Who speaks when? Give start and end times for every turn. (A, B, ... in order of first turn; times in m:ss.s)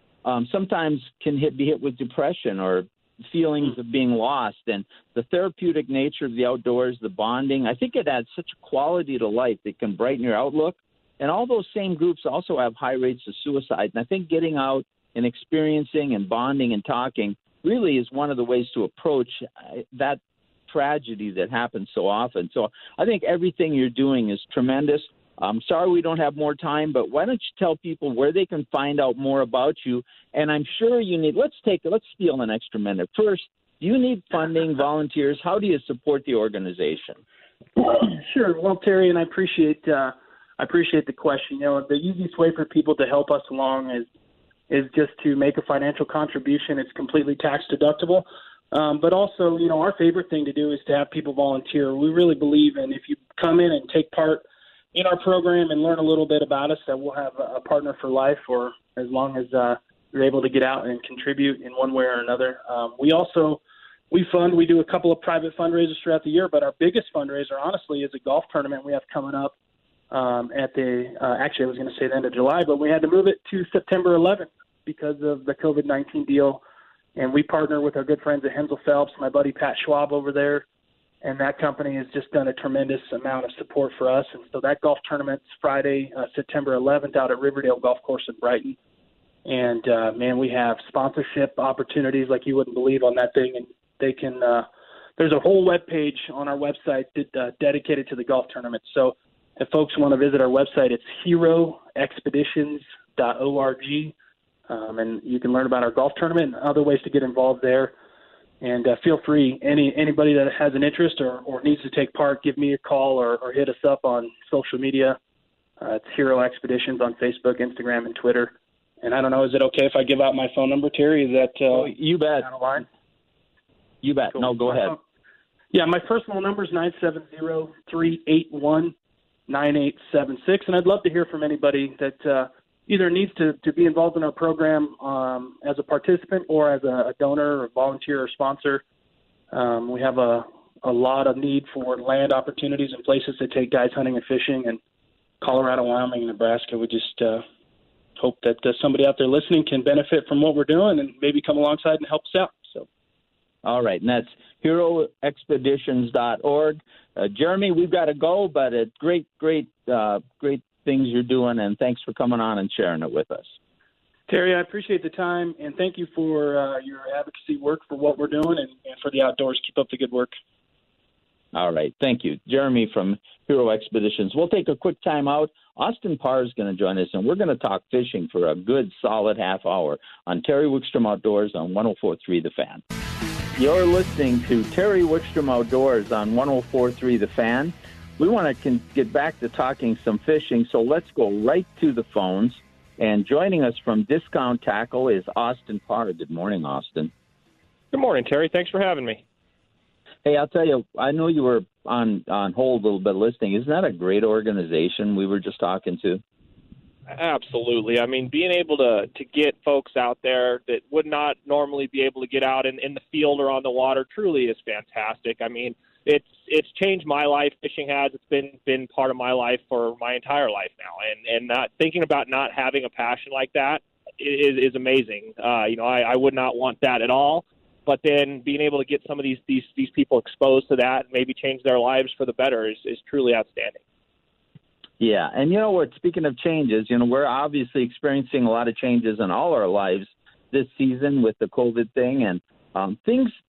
0:00.2-0:37.2 A
0:37.8-0:44.1 B
0:44.7-1:03.6 B
1:04.1-1:09.5 B
1:10.1-1:16.6 B
1:17.2-1:20.6 B
1:21.2-1:28.8 B
1:29.5-1:34.7 B
1:35.2-1:44.1 B
1:44.7-1:47.9 B
1:48.6-1:55.2 B
1:55.8-2:02.8 B
2:01.7-2:02.5 A
2:04.0-2:05.0 A
2:04.3-2:05.0 B
2:05.7-2:09.0 B
2:09.5-2:18.8 B
2:19.5-2:24.8 B
2:25.4-2:27.4 B
2:28.2-2:32.9 B
2:33.6-2:43.5 A
2:44.3-2:50.4 B
2:51.5-3:02.8 A
3:03.6-3:17.1 A
3:17.9-3:19.2 C
3:20.2-3:26.2 A
3:27.1-3:53.8 C
3:55.0-4:03.3 A